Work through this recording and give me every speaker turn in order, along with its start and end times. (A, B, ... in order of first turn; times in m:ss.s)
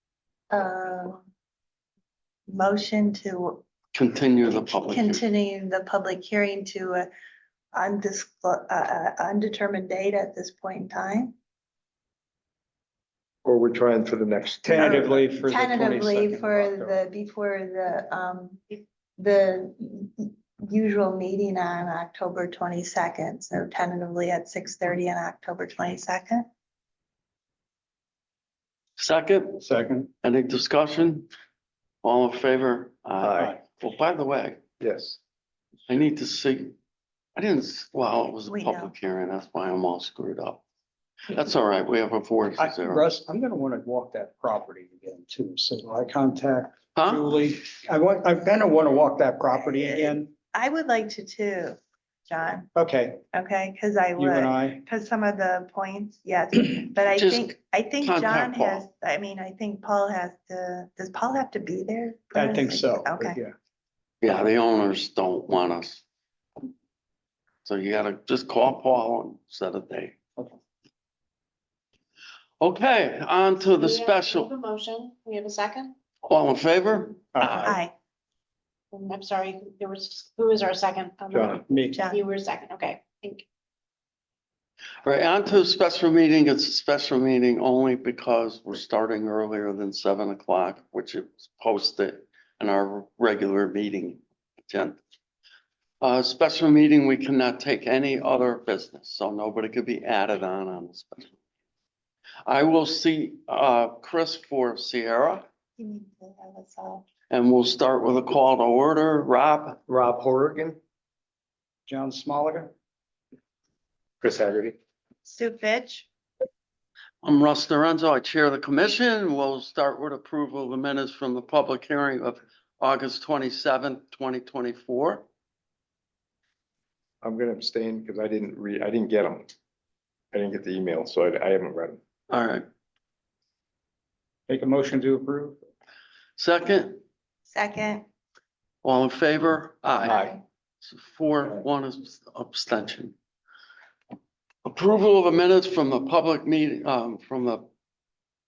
0:00.5-0:01.2 A
0:02.5-0:03.6 A
0:03.9-0:05.2 B
0:04.5-0:07.1 A
0:07.7-0:11.3 A
0:13.4-0:15.2 C
0:14.6-0:17.0 D
0:14.7-0:26.5 A
0:29.0-0:29.6 B
0:29.6-0:30.1 D
0:30.2-0:31.3 B
0:32.0-0:34.6 B
0:33.2-0:33.5 C
0:34.8-0:35.2 C
0:35.9-0:36.7 B
0:37.4-0:40.6 B
0:38.5-0:38.9 A
0:41.3-0:43.1 B
0:42.6-0:50.3 D
0:46.9-0:47.3 B
0:49.7-0:52.7 A
0:52.7-0:53.2 D
0:53.3-1:03.4 A
0:54.2-0:54.8 D
0:57.1-0:58.8 B
1:02.3-1:03.5 D
1:04.2-1:06.0 B
1:07.6-1:10.2 B
1:12.6-1:14.5 B
1:13.8-1:16.0 E
1:16.3-1:17.2 B
1:17.4-1:17.7 D
1:17.6-1:17.9 A
1:18.9-1:23.4 E
1:21.3-1:21.6 C
1:21.7-1:22.0 D
1:21.9-1:22.2 A
1:25.0-1:35.0 B
1:36.0-1:41.4 B
1:42.4-1:45.4 B
1:45.8-1:47.0 A
1:47.3-1:49.8 B
1:49.9-1:50.8 C
1:51.9-1:52.7 D
1:54.2-1:54.7 C
1:55.2-1:56.1 A
1:57.2-2:05.2 B
2:07.2-2:09.5 C
2:10.3-2:12.0 C
2:12.3-2:12.6 B
2:14.5-2:15.6 D
2:16.4-2:17.0 B
2:17.5-2:18.0 A
2:18.8-2:20.2 B
2:20.8-2:23.1 B
2:24.6-2:27.6 B